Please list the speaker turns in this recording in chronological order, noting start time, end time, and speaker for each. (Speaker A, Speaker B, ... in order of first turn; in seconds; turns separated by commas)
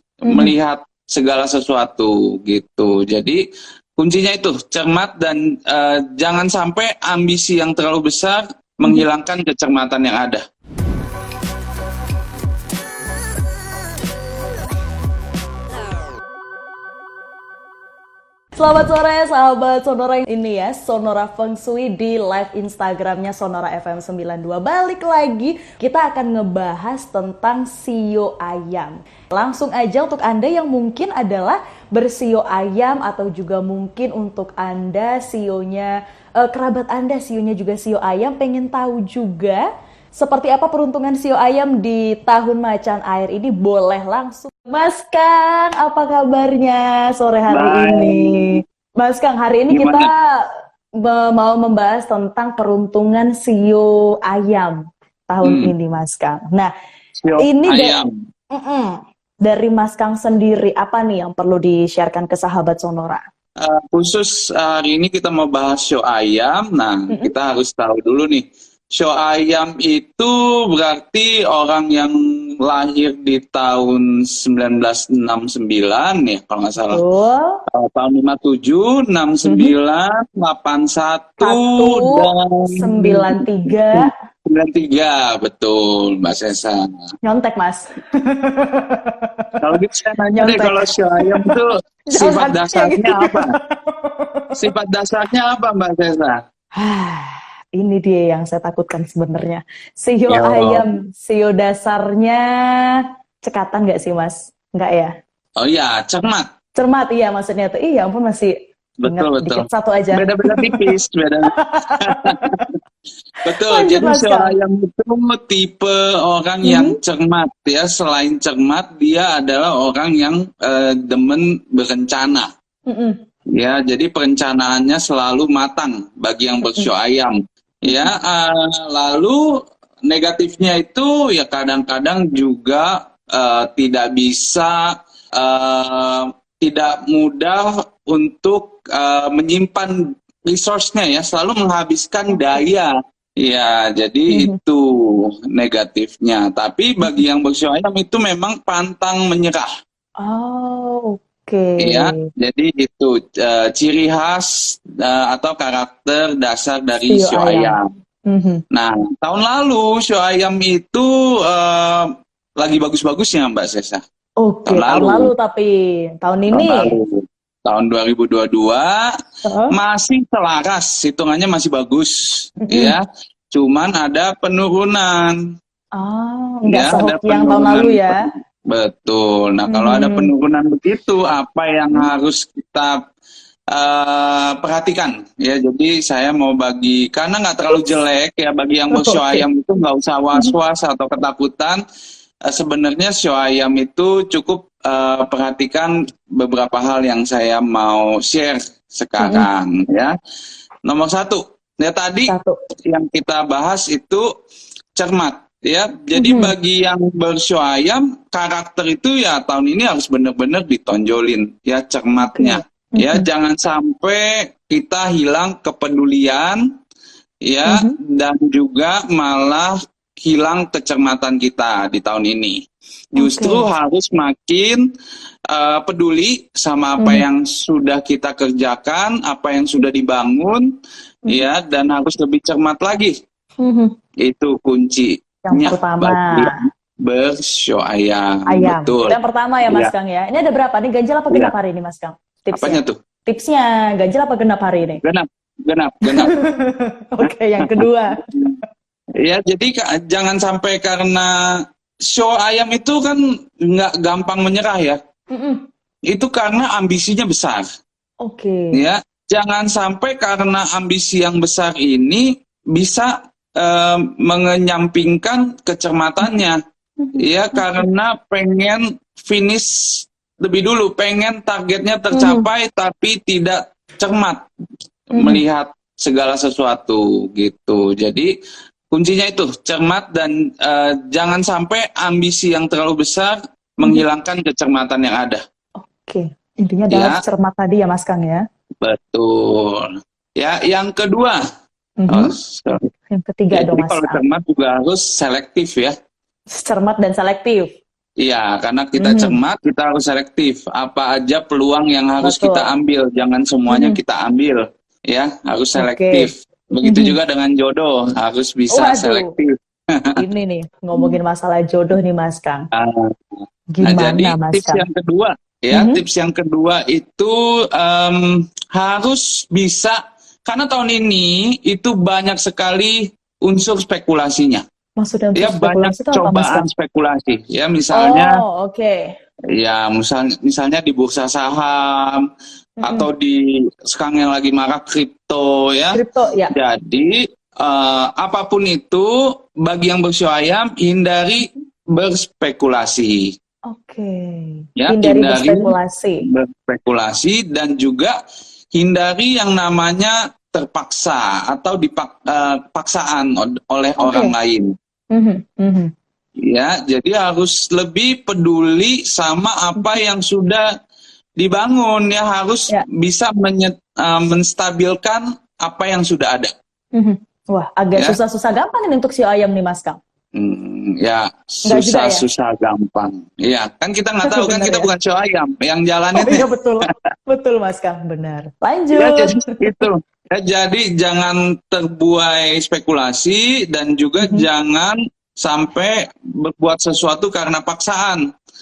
Speaker A: 0.2-3.4, Speaker B: 0.3-0.5, Speaker A: 4.0-10.4, Speaker B: 18.6-50.2, Speaker A: 47.5-48.6, Speaker A: 49.7-50.1, Speaker B: 51.0-54.8, Speaker B: 55.3-56.7, Speaker A: 55.4-55.7, Speaker A: 57.2-58.1, Speaker B: 57.4-58.0, Speaker B: 58.5-63.2, Speaker A: 63.6-72.1, Speaker A: 72.6-77.0, Speaker B: 76.9-77.6, Speaker A: 77.7-83.4, Speaker B: 79.5-79.7, Speaker B: 81.4-84.1, Speaker A: 84.0-86.8, Speaker B: 87.2-89.5, Speaker A: 89.6-93.5, Speaker B: 90.4-91.5, Speaker B: 92.1-94.5, Speaker A: 94.6-96.4, Speaker B: 96.8-105.1, Speaker A: 100.3-100.9, Speaker A: 105.6-106.4, Speaker B: 106.8-110.8, Speaker A: 109.0-112.6, Speaker B: 111.6-112.6, Speaker A: 113.4-122.5, Speaker B: 113.7-114.5, Speaker B: 116.6-117.0, Speaker B: 122.9-123.2, Speaker A: 123.5-129.4, Speaker B: 126.6-126.9, Speaker A: 130.1-134.8, Speaker A: 135.4-139.9, Speaker A: 140.5-149.7, Speaker B: 142.3-142.6, Speaker B: 150.2-152.3, Speaker A: 151.8-157.8, Speaker B: 157.1-157.8, Speaker B: 158.3-158.6, Speaker A: 158.7-162.1, Speaker A: 162.6-164.0, Speaker B: 164.4-166.9, Speaker A: 164.7-165.3, Speaker A: 166.5-169.1, Speaker B: 169.4-169.7, Speaker A: 169.7-172.2, Speaker B: 172.6-172.9, Speaker A: 172.7-173.0, Speaker A: 173.5-175.4, Speaker B: 176.0-178.2, Speaker A: 176.7-183.0, Speaker B: 179.7-180.3, Speaker A: 183.7-191.8, Speaker B: 188.9-189.4, Speaker A: 192.5-200.1, Speaker B: 199.2-199.5, Speaker A: 200.9-202.3, Speaker B: 202.3-202.6, Speaker A: 202.9-204.2, Speaker A: 205.0-216.6, Speaker B: 206.2-206.5, Speaker B: 212.2-213.2, Speaker A: 217.4-222.6, Speaker B: 217.7-217.9, Speaker A: 223.2-224.8, Speaker B: 223.2-223.7, Speaker A: 225.5-230.7, Speaker B: 227.0-227.2, Speaker A: 231.3-233.1, Speaker B: 233.6-233.9, Speaker A: 234.2-239.2, Speaker B: 235.4-236.6, Speaker B: 238.5-245.0, Speaker A: 242.5-242.9, Speaker A: 245.0-246.3, Speaker B: 246.1-248.2, Speaker A: 247.6-248.6, Speaker A: 249.2-251.3, Speaker A: 252.1-255.0, Speaker B: 255.3-255.6, Speaker A: 256.1-257.6, Speaker B: 258.2-258.8, Speaker A: 258.7-266.6, Speaker B: 267.0-267.8, Speaker A: 267.2-269.7, Speaker A: 270.4-274.4, Speaker B: 272.1-272.5, Speaker A: 275.1-278.3, Speaker B: 275.1-275.4, Speaker A: 278.9-285.4, Speaker B: 285.8-288.4, Speaker A: 286.9-287.1, Speaker A: 288.8-291.4, Speaker B: 292.0-294.2, Speaker A: 292.1-292.8, Speaker A: 293.5-295.9, Speaker B: 296.5-297.7, Speaker A: 298.2-310.2, Speaker B: 299.0-299.4, Speaker B: 302.2-302.7, Speaker B: 303.7-304.0, Speaker B: 305.8-306.3, Speaker B: 306.8-307.1, Speaker B: 308.7-309.3, Speaker B: 310.1-312.7, Speaker A: 312.7-313.1, Speaker B: 313.7-314.8, Speaker A: 313.8-319.9, Speaker B: 315.7-316.0, Speaker A: 320.5-324.6, Speaker B: 325.0-326.6, Speaker A: 325.4-328.4, Speaker B: 327.9-329.0, Speaker A: 329.5-332.2, Speaker B: 332.8-333.1, Speaker A: 332.9-336.0, Speaker B: 335.9-336.5, Speaker A: 336.5-339.1, Speaker A: 339.6-343.3, Speaker B: 343.7-346.2, Speaker A: 344.8-345.7, Speaker A: 346.2-348.1, Speaker A: 348.7-354.7, Speaker B: 354.0-354.3, Speaker B: 355.1-355.9, Speaker A: 356.5-360.6, Speaker A: 361.4-366.5, Speaker B: 366.9-370.0, Speaker A: 370.4-376.9, Speaker B: 371.7-372.2, Speaker B: 374.2-374.9, Speaker B: 376.1-379.8, Speaker A: 378.9-388.2